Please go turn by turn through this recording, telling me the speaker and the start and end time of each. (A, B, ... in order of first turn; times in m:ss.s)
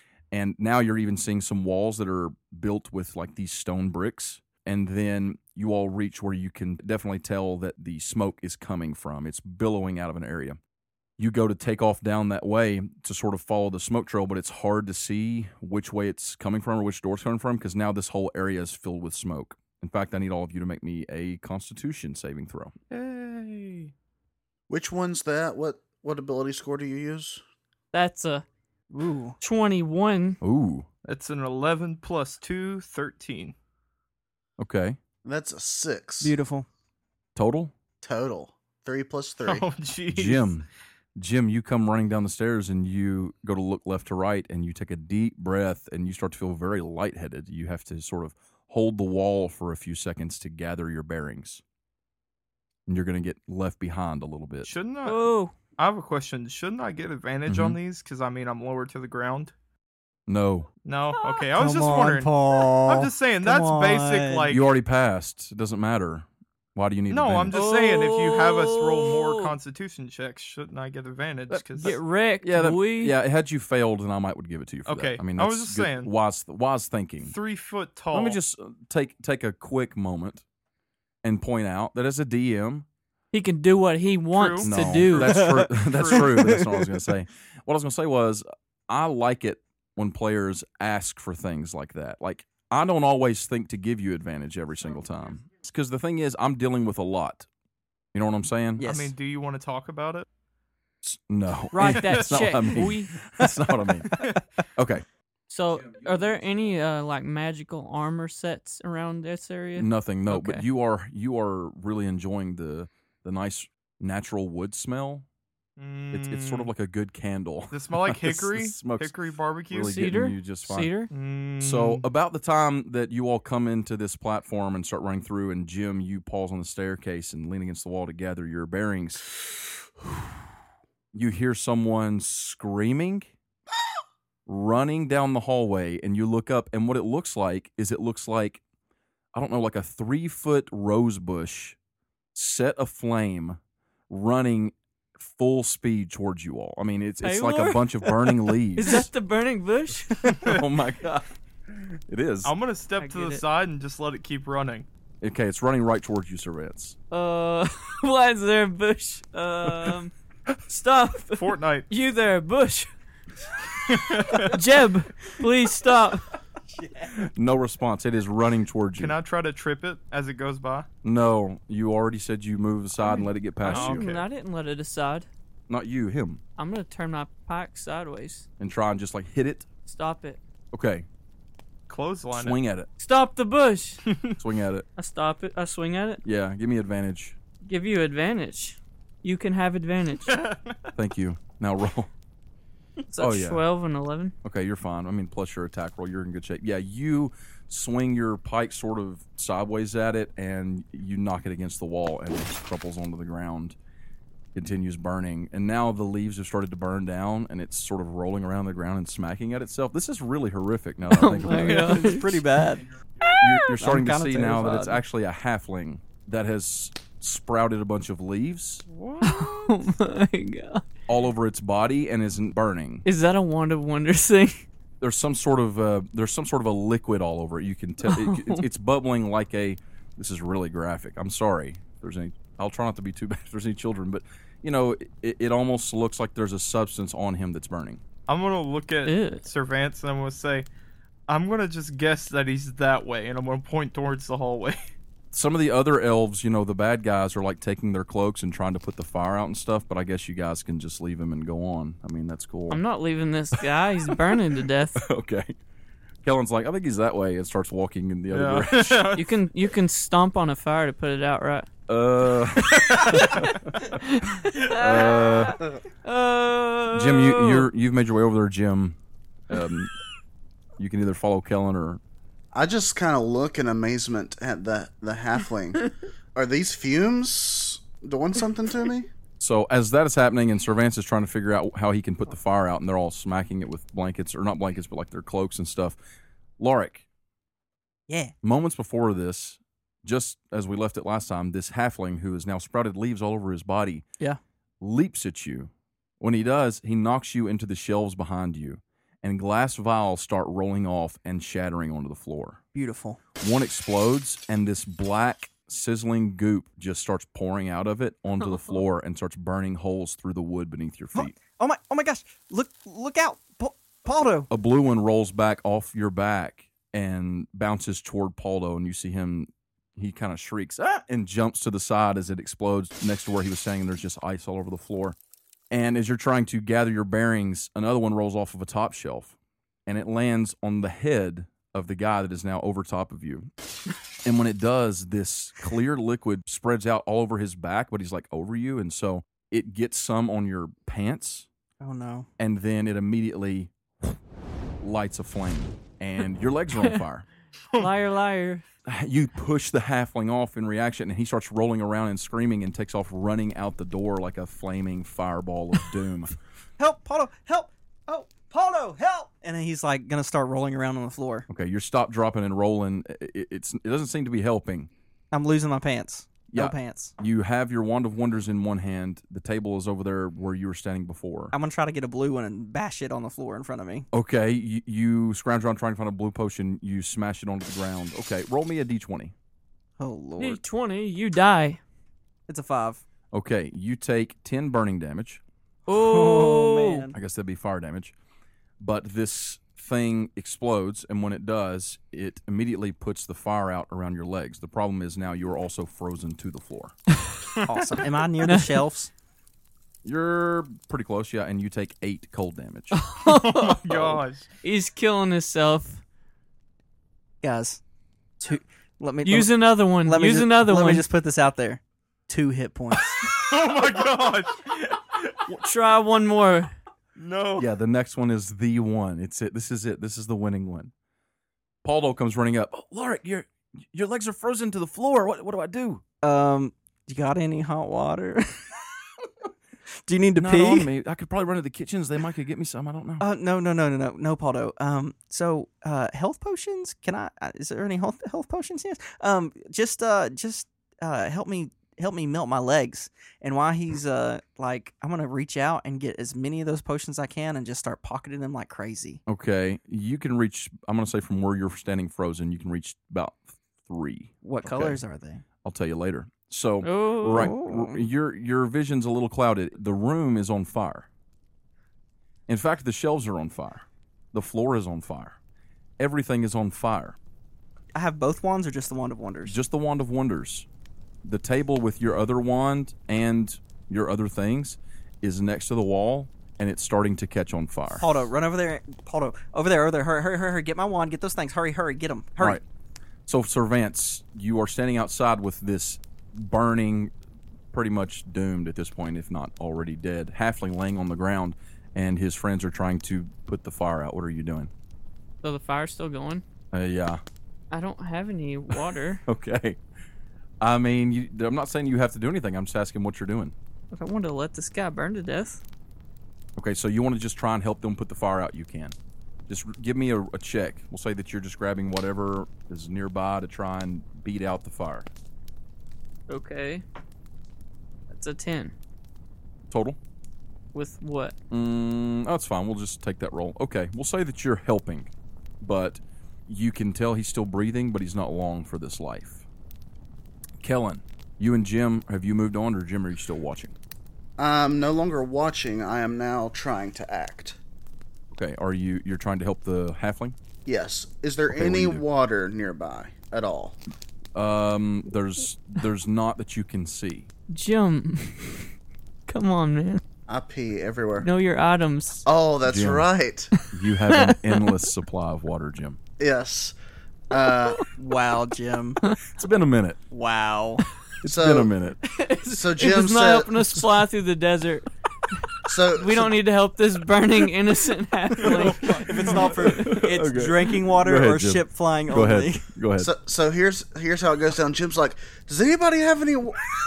0:00.3-0:10.6 A
0:11.2-0:22.7 A
0:22.9-0:23.9 B
0:24.7-0:27.4 C
0:27.9-0:28.5 D
0:28.9-0:29.4 E
0:29.4-0:30.4 D
0:30.4-0:30.9 A
0:31.0-0:33.6 B
0:34.6-0:35.0 A
0:35.2-0:36.4 C
0:36.2-0:36.7 E
0:37.4-0:37.7 A
0:38.0-0:39.7 C
0:39.4-0:40.5 B
0:40.1-0:51.6 A
0:52.9-0:54.7 A
0:54.6-0:59.5 B
0:55.0-0:55.6 D
0:57.5-0:57.8 A
1:00.3-1:00.7 A
1:00.8-1:02.3 B
1:01.5-1:04.6 E
1:02.9-1:04.7 B
1:04.5-1:07.6 A
1:07.1-1:12.0 B
1:07.5-1:09.6 D
1:11.5-1:17.3 A
1:11.8-1:13.2 D
1:14.9-1:16.1 B
1:17.2-1:18.4 B
1:18.1-1:20.4 A
1:21.2-1:22.9 A
1:23.3-1:25.7 D
1:24.3-1:26.3 B
1:24.6-1:37.5 A
1:25.4-1:26.9 E
1:38.1-1:38.8 A
1:38.8-1:39.1 E
1:38.8-1:40.3 B
1:41.0-1:44.2 A
1:41.7-1:43.3 D
1:41.8-1:42.4 B
1:44.8-1:45.0 A
1:45.5-1:50.6 D
1:49.8-1:55.3 A
1:55.8-1:56.7 B
1:56.1-1:59.1 A
1:57.7-2:00.0 B
1:59.7-2:00.9 A
1:59.9-2:01.1 D
2:01.1-2:02.0 B
2:01.6-2:09.4 A
2:11.1-2:13.3 A
2:14.5-2:18.6 A
2:19.3-2:21.8 A
2:22.4-2:23.6 A
2:24.1-2:29.1 A
2:27.2-2:30.6 D
2:30.3-2:32.5 A
2:30.3-2:30.6 B
2:32.4-2:34.9 B
2:33.0-2:33.4 D
2:35.2-2:37.0 A
2:37.1-2:40.1 D
2:40.7-2:42.9 D
2:41.4-2:41.9 B
2:43.9-2:44.6 B
2:44.2-2:46.4 D
2:46.7-2:47.2 E
2:47.1-2:49.2 A
2:49.0-2:50.9 B
2:51.0-2:54.1 A
2:53.0-2:55.3 D
2:53.7-2:54.3 B
2:55.7-2:56.4 A
2:56.6-2:58.5 D
2:58.6-2:59.7 A
2:59.8-3:00.4 D
3:00.7-3:01.1 A
3:01.9-3:02.6 B
3:02.3-3:02.9 A
3:03.0-3:04.0 D
3:04.1-3:04.4 B
3:04.4-3:04.9 A
3:05.0-3:06.2 D
3:06.2-3:07.4 A
3:07.6-3:10.4 D
3:10.3-3:10.9 B
3:11.0-3:12.1 A
3:13.1-3:14.3 D
3:13.2-3:13.6 A
3:14.4-3:23.8 A
3:24.5-3:32.1 A
3:31.1-3:32.5 D
3:31.6-3:32.9 E
3:33.2-3:33.7 D
3:33.2-3:38.8 A
3:33.8-3:35.0 E
3:38.9-3:39.8 B
3:39.2-3:40.9 D
3:41.1-3:43.0 A
3:43.0-3:44.7 D
3:45.0-3:58.0 A
3:48.0-3:48.6 D
3:58.3-4:00.7 B
3:59.0-3:59.5 D
4:01.3-4:04.8 B
4:05.3-4:12.8 A
4:12.7-4:15.0 D
4:14.1-4:14.4 A
4:15.0-4:15.6 A
4:16.2-4:19.2 A
4:18.3-4:19.3 B
4:19.2-4:21.7 D
4:21.9-4:23.7 A
4:22.8-4:27.7 D
4:22.9-4:23.4 B
4:24.7-4:25.6 A
4:26.9-4:29.0 A
4:29.5-4:29.9 A
4:30.8-4:32.0 A
4:32.5-4:39.1 C
4:39.4-4:46.0 A
4:46.6-4:47.1 A
4:48.1-4:48.3 E
4:48.4-4:54.0 A
4:54.8-5:02.6 A
5:02.7-5:03.2 E
5:03.4-5:11.3 A
5:11.2-5:14.5 E
5:14.5-5:25.2 A
5:25.7-5:29.4 A
5:29.9-5:33.5 A
5:34.2-5:41.5 A
5:41.8-5:42.3 E
5:42.4-5:44.2 A
5:44.8-5:47.3 A
5:47.8-5:48.6 D
5:48.9-5:56.4 A
5:56.8-6:01.5 E
6:01.5-6:04.9 A
6:05.3-6:07.1 E
6:06.5-6:11.5 A
6:11.5-6:14.1 E
6:14.1-6:19.3 A
6:20.0-6:20.6 E
6:20.4-6:21.8 D
6:22.5-6:23.0 E
6:23.3-6:25.4 A
6:25.9-6:27.2 E
6:25.9-6:27.1 D
6:27.1-6:28.1 A
6:28.8-6:37.0 A
6:37.6-6:39.1 E
6:38.4-6:38.8 D
6:40.0-6:43.0 A
6:42.9-6:44.1 D
6:43.2-6:44.5 B
6:44.6-6:46.0 D
6:47.4-6:47.8 E
6:48.4-6:53.3 E
6:49.2-6:51.0 D
6:53.2-6:54.9 B
6:55.5-6:56.7 D
6:57.2-6:57.7 B
6:57.6-7:00.9 A
7:01.8-7:06.0 A
7:06.2-7:08.9 E
7:10.0-7:10.9 E
7:10.4-7:13.2 A
7:13.2-7:29.2 E
7:29.3-7:35.0 A
7:34.4-7:35.4 E
7:35.6-7:41.1 A
7:36.8-7:37.5 D
7:37.3-7:38.1 E
7:42.5-7:45.4 A
7:46.0-7:47.2 A
7:48.0-7:49.6 E
7:49.5-7:50.7 A
7:51.2-7:58.1 A
7:58.0-8:02.6 E
8:03.3-8:07.1 A
8:07.7-8:14.7 A
8:15.4-8:16.4 D
8:16.7-8:17.2 A
8:17.7-8:19.2 D
8:19.3-8:19.8 A
8:20.6-8:23.6 A
8:23.9-8:25.6 D
8:26.6-8:29.0 A
8:29.5-8:35.1 A
8:36.3-8:36.8 D
8:38.1-8:38.7 D
8:39.7-8:40.0 A
8:40.7-8:41.4 D
8:41.5-8:49.5 A
8:50.6-8:53.8 A
8:54.4-8:57.6 C
8:58.3-9:00.4 A
9:00.7-9:03.8 C
9:01.5-9:02.0 A
9:04.4-9:07.3 A
9:07.5-9:08.7 D
9:09.3-9:10.0 D
9:10.3-9:11.3 C
9:11.2-9:12.2 D
9:12.2-9:13.5 C
9:12.6-9:13.1 A
9:13.6-9:14.6 D
9:13.7-9:16.0 A
9:16.2-9:16.7 C
9:17.3-9:17.9 C
9:18.0-9:19.0 E
9:19.3-9:20.0 A
9:20.1-9:20.8 E
9:21.2-9:22.0 A
9:21.2-9:21.7 C
9:22.0-9:29.8 D
9:22.5-9:23.8 C
9:25.7-9:26.3 C
9:28.4-9:29.5 B
9:28.4-9:32.7 E
9:29.6-9:33.1 A
9:33.0-9:36.6 C